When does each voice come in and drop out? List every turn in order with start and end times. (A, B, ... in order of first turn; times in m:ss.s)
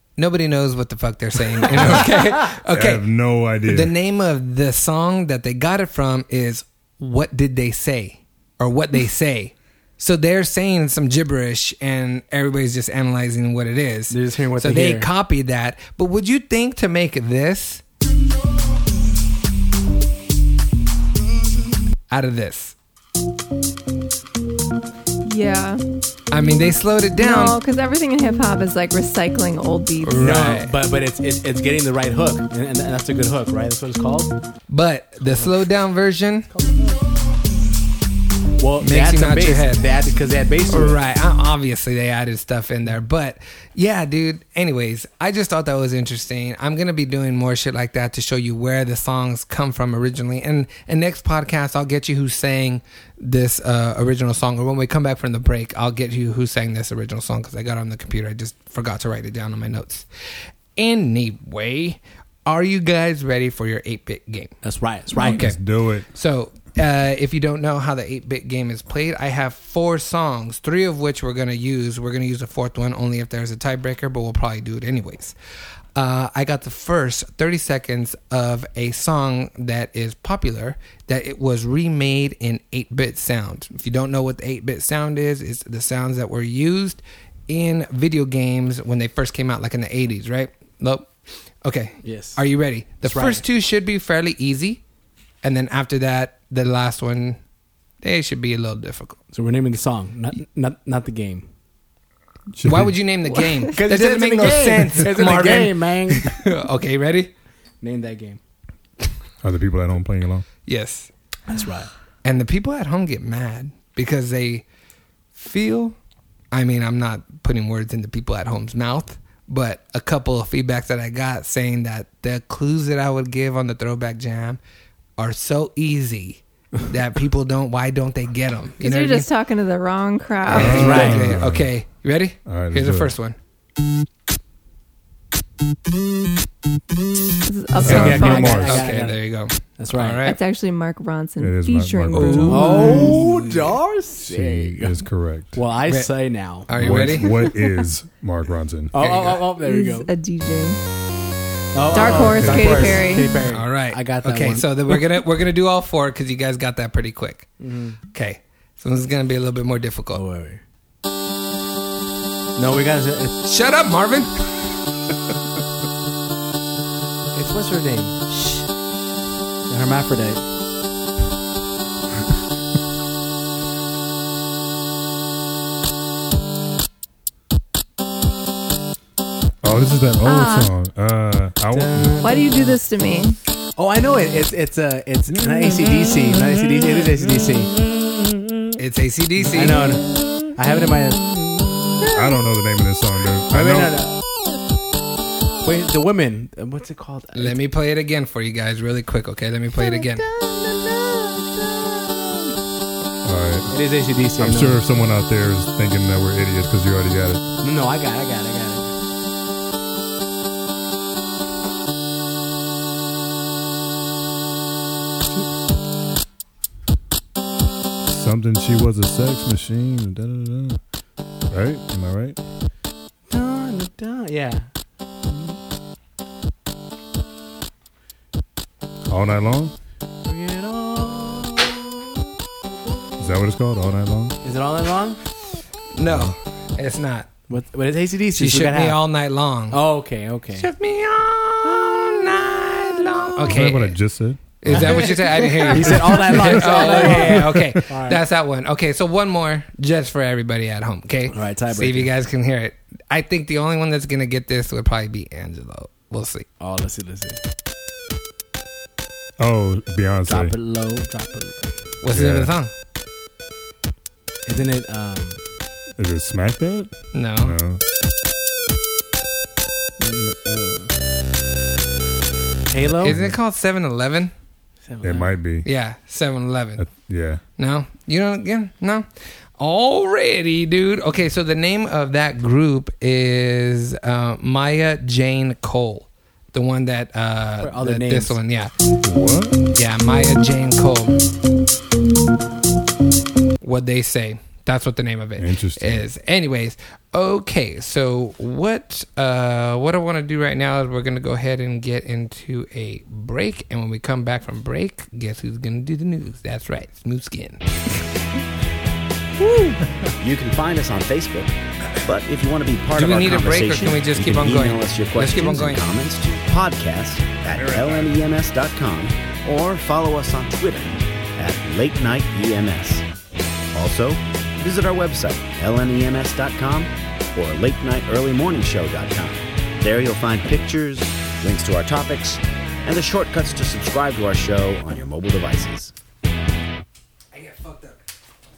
0:00.2-0:03.0 A
0:01.8-0:02.0 B
0:02.7-0:04.0 B
0:03.6-0:17.8 A
0:14.1-0:15.1 C
0:22.1-0:22.8 A
0:25.2-0:25.8 D
0:26.3-0:27.6 A
0:27.2-0:30.5 D
0:30.0-0:30.7 A
0:30.2-0:34.3 C
0:34.7-0:36.5 A
0:35.2-0:35.5 C
0:36.5-0:37.0 C
0:38.6-0:41.0 C
0:38.8-0:39.9 A
0:40.7-1:00.1 A
1:00.8-1:04.6 A
1:04.6-1:05.4 C
1:05.2-1:05.6 A
1:05.3-1:06.1 B
1:06.1-1:15.4 A
1:16.0-1:31.1 A
1:31.6-1:34.8 A
1:32.0-1:32.4 C
1:33.0-1:33.4 C
1:35.4-1:37.4 A
1:38.0-1:39.2 A
1:39.3-1:41.4 C
1:42.5-1:43.0 B
1:42.6-1:47.3 A
1:43.7-1:46.4 C
1:47.8-1:48.4 C
1:49.4-1:50.5 B
1:50.7-1:51.1 A
1:51.5-1:51.9 C
1:52.2-1:54.6 A
1:55.4-1:56.0 A
1:56.5-2:04.6 A
2:05.2-2:09.3 A
2:08.8-2:11.1 D
2:10.5-2:11.7 B
2:10.5-2:13.4 A
2:10.5-2:11.4 C
2:12.5-2:13.1 B
2:17.5-2:18.7 D
2:17.8-2:19.2 C
2:17.8-2:18.8 B
2:17.9-2:20.4 A
2:19.8-2:20.2 C
2:20.2-2:23.1 D
2:21.4-2:23.4 B
2:22.1-2:23.5 A
2:22.5-2:25.0 C
2:24.2-2:25.6 B
2:25.5-2:27.3 C
2:26.7-2:27.3 A
2:26.8-2:28.9 B
2:28.9-2:30.1 C
2:29.0-2:29.4 A
2:29.6-2:30.8 D
2:31.7-2:35.0 C
2:31.9-2:33.4 D
2:32.0-2:33.0 B
2:33.5-2:37.5 A
2:37.6-2:38.0 C
2:38.1-2:40.2 A
2:40.1-2:40.6 C
2:42.6-2:43.4 C
2:43.4-2:44.7 A
2:47.3-2:48.3 C
2:49.7-2:50.5 C
2:59.6-3:02.2 B
3:00.2-3:00.7 D
3:01.7-3:02.8 C
3:02.2-3:03.4 D
3:03.8-3:07.8 C
3:08.8-3:10.0 A
3:09.4-3:11.5 C
3:12.1-3:14.0 B
3:13.5-3:14.2 C
3:15.6-3:17.6 C
3:17.4-3:20.2 A
3:19.8-3:22.5 C
3:23.2-3:23.8 B
3:23.7-3:24.8 C
3:24.4-3:27.4 B
3:27.6-3:28.9 C
3:38.0-3:40.8 B
3:41.5-3:42.4 B
3:43.3-3:44.7 C
3:49.1-3:49.7 B
3:50.2-3:52.1 C
3:53.2-3:54.4 B
3:54.4-3:55.2 C
3:55.9-3:57.3 A
3:56.0-3:56.4 B
3:57.5-3:59.0 C
3:58.4-3:59.8 A
3:59.7-4:00.7 C
4:00.6-4:04.0 A
4:03.4-4:07.8 B
4:04.6-4:16.5 A
4:04.7-4:08.2 C
4:11.3-4:12.1 C
4:16.6-4:17.4 C
4:19.4-4:20.6 B
4:20.3-4:21.6 C
4:22.0-4:22.7 A
4:22.1-4:22.5 B
4:24.5-4:25.4 C
4:26.0-4:27.8 B
4:27.1-4:27.6 A
4:30.0-4:30.9 B
4:32.7-4:33.2 C
4:33.0-4:34.3 A
4:33.0-4:33.4 B
4:34.9-4:35.3 C
4:35.0-4:35.7 B
4:35.6-4:36.9 A
4:36.8-4:37.4 B
4:37.6-4:39.1 A
4:39.6-4:48.7 A
4:47.6-4:48.4 C
4:49.0-4:49.6 B
4:49.8-4:51.2 A
4:53.6-5:07.6 A
4:55.4-4:56.0 B
5:10.2-5:11.5 E
5:12.0-5:23.1 E
5:13.0-5:15.8 A
5:17.5-5:18.2 B
5:23.7-5:35.9 E
5:37.3-5:38.0 A